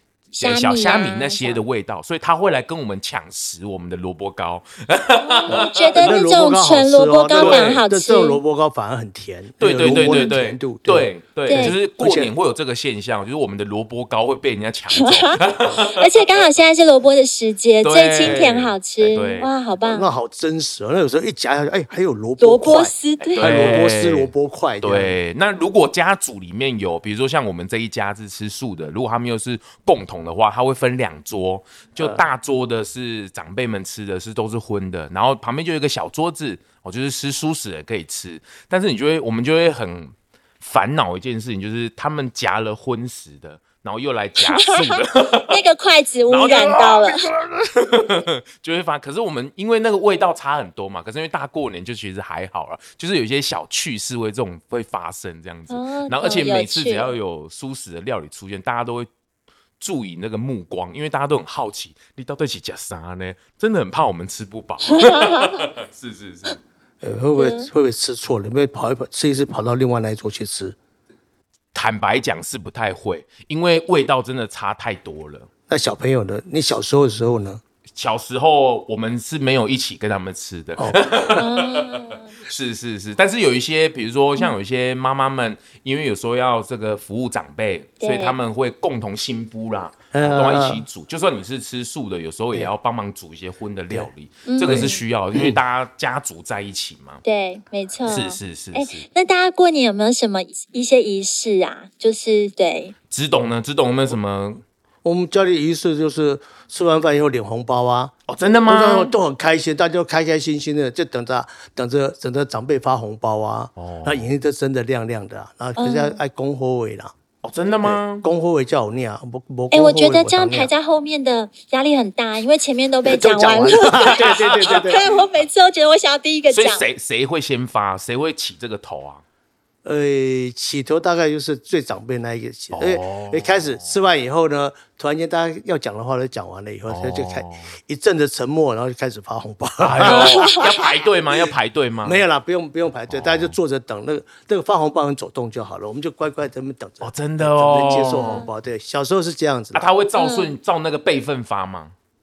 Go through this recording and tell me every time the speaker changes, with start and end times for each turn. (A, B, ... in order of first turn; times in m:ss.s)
0:00.3-0:01.6 A
0:00.4-0:06.2 B
0:05.2-0:08.4 A
0:05.5-0:12.3 C
0:07.4-0:07.8 B
0:09.6-0:16.2 B
0:09.8-0:10.4 A
0:11.5-0:11.8 A
0:15.0-0:20.1 A
0:17.8-0:19.5 B
0:18.2-0:18.5 C
0:19.8-0:25.2 C
0:22.4-0:23.5 A
0:23.2-0:24.3 B
0:24.8-0:45.6 B
0:32.0-0:32.2 C
0:44.4-0:47.3 A
0:46.3-0:59.1 B
0:55.7-0:57.1 A
0:59.8-1:06.6 B
1:04.9-1:05.7 A
1:07.0-1:10.8 C
1:07.4-1:07.7 A
1:11.7-1:15.5 B
1:15.7-1:17.6 C
1:18.0-1:37.2 B
1:21.4-1:22.4 A
1:28.0-1:28.4 A
1:30.1-1:30.8 C
1:34.5-1:35.0 A
1:34.6-1:35.6 C
1:37.2-1:43.0 A
1:38.1-1:39.1 B
1:43.1-1:44.6 B
1:45.0-1:48.2 C
1:48.3-1:49.1 B
1:48.7-1:57.1 C
1:53.8-1:54.3 B
1:55.8-1:56.2 A
1:57.4-1:58.3 B
1:57.8-2:00.7 C
1:59.7-2:06.9 A
2:03.0-2:05.0 C
2:04.2-2:04.6 B
2:06.5-2:09.2 B
2:09.8-2:20.7 C
2:12.7-2:13.9 B
2:16.9-2:17.7 B
2:19.8-2:22.2 B
2:20.0-2:20.6 A
2:22.0-2:29.8 C
2:23.1-2:23.6 B
2:27.0-2:28.4 B
2:27.8-2:28.5 A
2:29.7-2:31.9 B
2:30.2-2:30.5 A